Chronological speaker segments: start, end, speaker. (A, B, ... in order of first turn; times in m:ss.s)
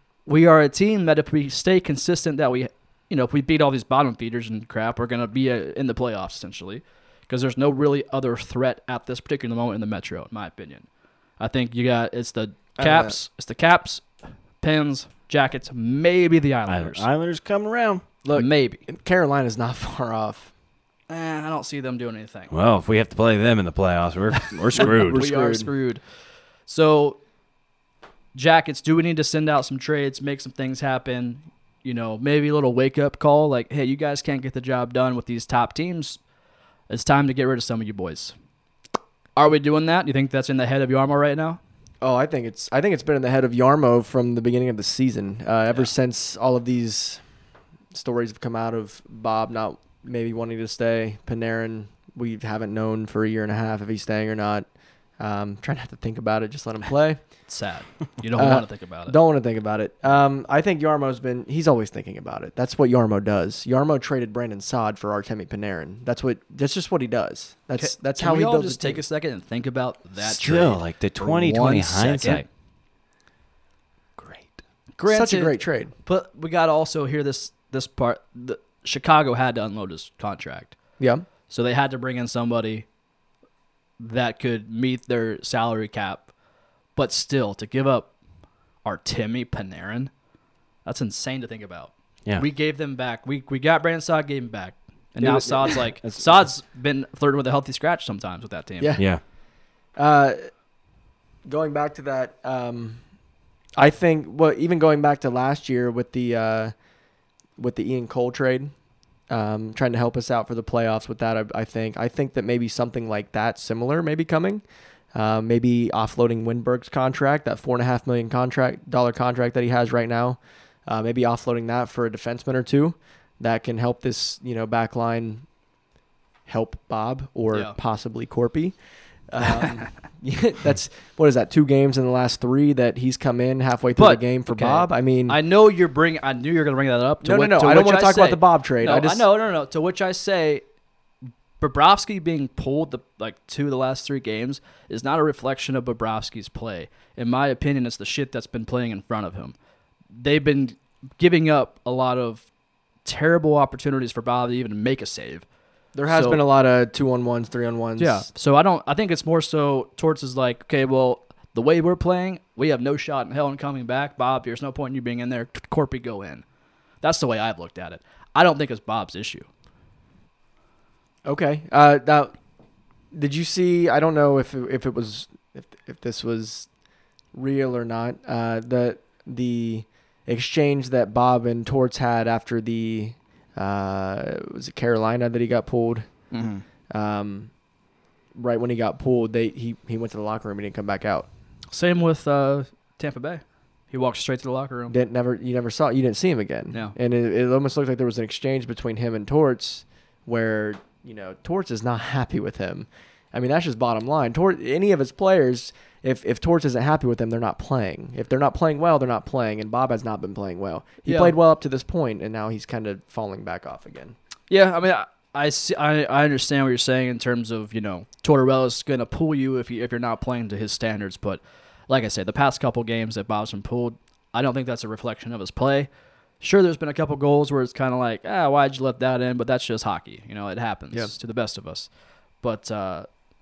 0:00.2-0:10.8 A
0:11.4-0:14.1 A
0:12.8-0:13.2 B
0:14.6-0:17.1 A
0:16.7-0:18.0 C
0:18.2-0:20.5 B
0:18.3-0:18.8 A
0:21.1-0:22.5 A
0:22.5-0:25.2 C
0:24.8-0:26.0 A
0:24.8-0:25.7 B
0:26.7-0:27.2 A
0:28.3-0:36.2 A
0:36.9-0:38.3 A
0:39.4-0:41.6 A
0:42.0-0:47.2 B
0:47.9-0:54.7 B
0:55.2-0:57.2 B
0:57.5-0:59.2 A
0:58.3-1:09.0 B
1:07.8-1:12.4 A
1:10.2-1:12.4 C
1:14.2-1:14.5 C
1:15.0-1:20.7 A
1:15.0-1:15.9 B
1:21.0-1:21.3 B
1:21.5-1:22.8 A
1:24.0-1:26.3 A
1:27.0-1:28.1 A
1:28.8-1:30.1 A
1:30.8-1:39.0 A
1:35.2-1:36.5 C
1:35.3-1:35.8 B
1:38.8-1:39.0 B
1:39.9-1:40.5 B
1:41.4-1:43.0 B
1:43.8-1:46.7 B
1:47.6-1:48.7 B
1:49.3-2:05.4 B
2:06.4-2:08.8 B
2:09.3-2:15.4 B
2:14.0-2:20.6 A
2:17.2-2:19.3 B
2:21.6-2:29.5 A
2:30.1-2:32.4 A
2:33.0-2:35.4 A
2:35.9-2:38.3 B
2:36.1-2:36.4 A
2:38.0-2:46.4 A
2:47.0-2:49.5 A
2:51.2-2:52.3 B
2:53.1-2:56.7 B
2:57.3-3:06.1 B
3:06.3-3:06.6 A
3:06.9-3:07.5 B
3:08.3-3:11.3 B
3:11.7-3:14.9 A
3:14.9-3:34.2 B
3:31.0-3:31.4 A
3:34.5-3:51.9 A
3:52.4-3:53.1 A